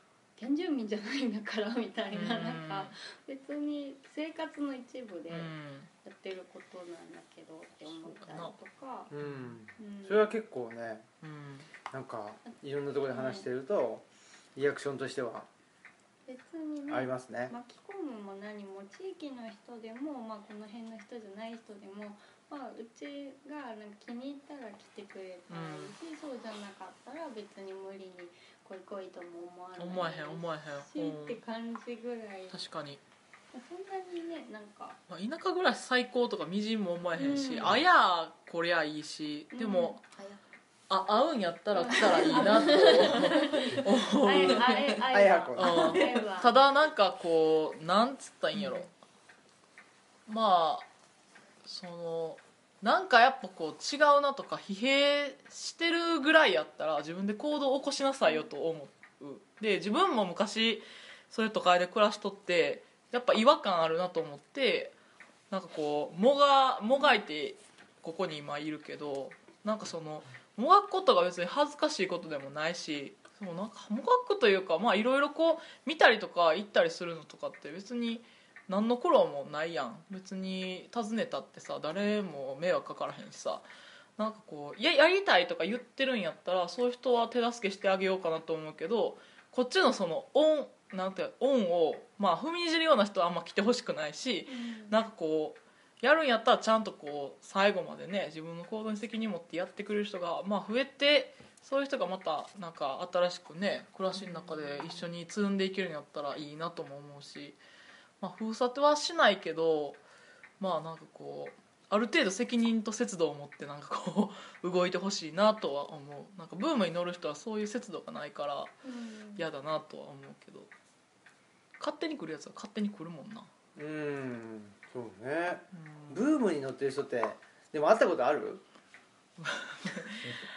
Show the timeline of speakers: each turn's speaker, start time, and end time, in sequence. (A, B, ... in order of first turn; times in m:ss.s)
0:00.4-0:09.1 A
0:02.1-0:02.9 B
0:05.3-0:05.9 B
0:07.9-0:08.5 B
0:09.1-0:11.0 C
0:09.2-0:09.6 B
0:09.8-0:10.3 A
0:11.2-0:11.7 B
0:11.9-0:15.5 C
0:13.1-0:13.5 A
0:16.3-0:32.6 A
0:16.9-0:17.5 C
0:25.5-0:25.9 B
0:29.8-0:31.4 B
0:32.5-0:33.0 B
0:33.5-0:35.0 A
0:35.1-0:40.0 B
0:37.2-0:37.8 A
0:39.5-0:40.4 A
0:40.9-0:45.0 B
0:41.7-0:46.6 A
0:45.1-0:46.0 C
0:45.6-0:48.9 B
0:50.3-0:50.9 B
0:51.6-1:04.9 B
1:05.5-1:23.6 B
1:24.2-1:47.6 B
1:34.5-1:35.0 A
1:44.4-1:44.9 A
1:48.2-1:50.0 B
1:50.6-1:58.7 B
1:58.8-1:59.4 A
1:59.4-2:00.7 B
2:01.8-2:03.5 B
2:03.8-2:08.6 C
2:05.7-2:06.2 B
2:09.4-2:10.2 B